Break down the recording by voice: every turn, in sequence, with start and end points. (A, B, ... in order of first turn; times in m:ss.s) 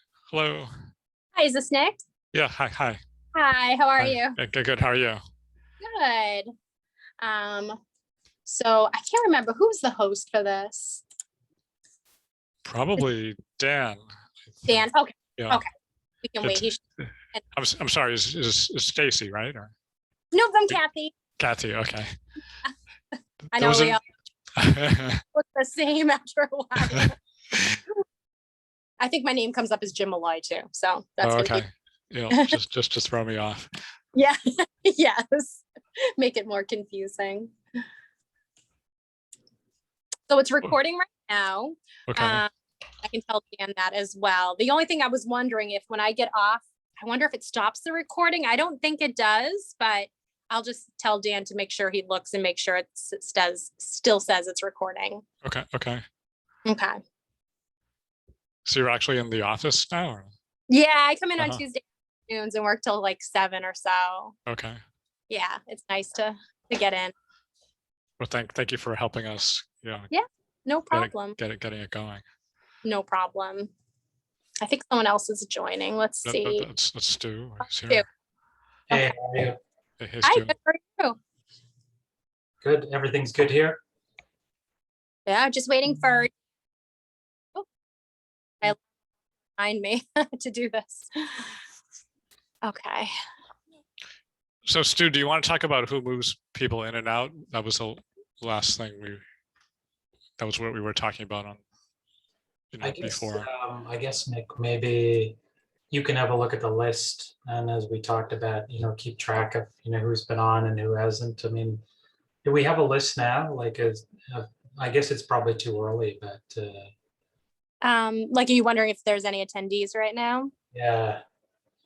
0:00.3-0:00.7 A
0:01.3-0:02.0 B
0:02.3-0:03.0 A
0:03.3-0:04.4 B
0:04.0-0:05.2 A
0:05.8-0:06.5 B
0:07.2-0:07.8 B
0:08.4-0:11.0 B
0:12.6-0:14.0 A
0:14.5-0:15.6 A
0:14.7-0:15.6 B
0:16.2-0:16.8 B
0:16.4-0:19.7 A
0:20.3-0:21.1 B
0:21.4-0:22.1 A
0:23.5-0:24.0 B
0:23.5-0:24.0 A
0:24.6-0:25.2 A
0:25.3-0:27.2 B
0:27.5-0:27.8 A
0:29.0-0:31.6 B
0:31.2-0:33.7 A
0:32.3-0:32.6 B
0:34.1-0:35.6 B
0:36.2-0:37.5 B
0:40.3-0:42.5 B
0:42.1-0:42.4 A
0:43.0-0:55.2 B
0:55.4-0:56.0 A
0:56.6-0:57.0 B
0:58.6-1:00.3 A
1:00.7-1:04.3 B
1:04.5-1:04.8 A
1:05.3-1:07.1 B
1:08.2-1:10.1 A
1:10.1-1:11.4 B
1:10.9-1:12.2 A
1:12.8-1:13.7 B
1:14.6-1:16.7 B
1:16.2-1:18.0 A
1:18.9-1:19.6 C
1:20.0-1:20.5 A
1:20.2-1:21.2 B
1:22.6-1:23.8 C
1:25.2-1:26.3 B
1:29.6-1:31.5 B
1:32.6-1:33.1 B
1:34.6-1:39.2 A
1:40.4-1:41.6 A
1:42.7-1:43.5 A
1:42.8-1:45.4 C
1:45.9-1:51.8 C
1:52.4-1:56.9 C
1:57.8-2:00.5 B
2:00.7-2:01.2 C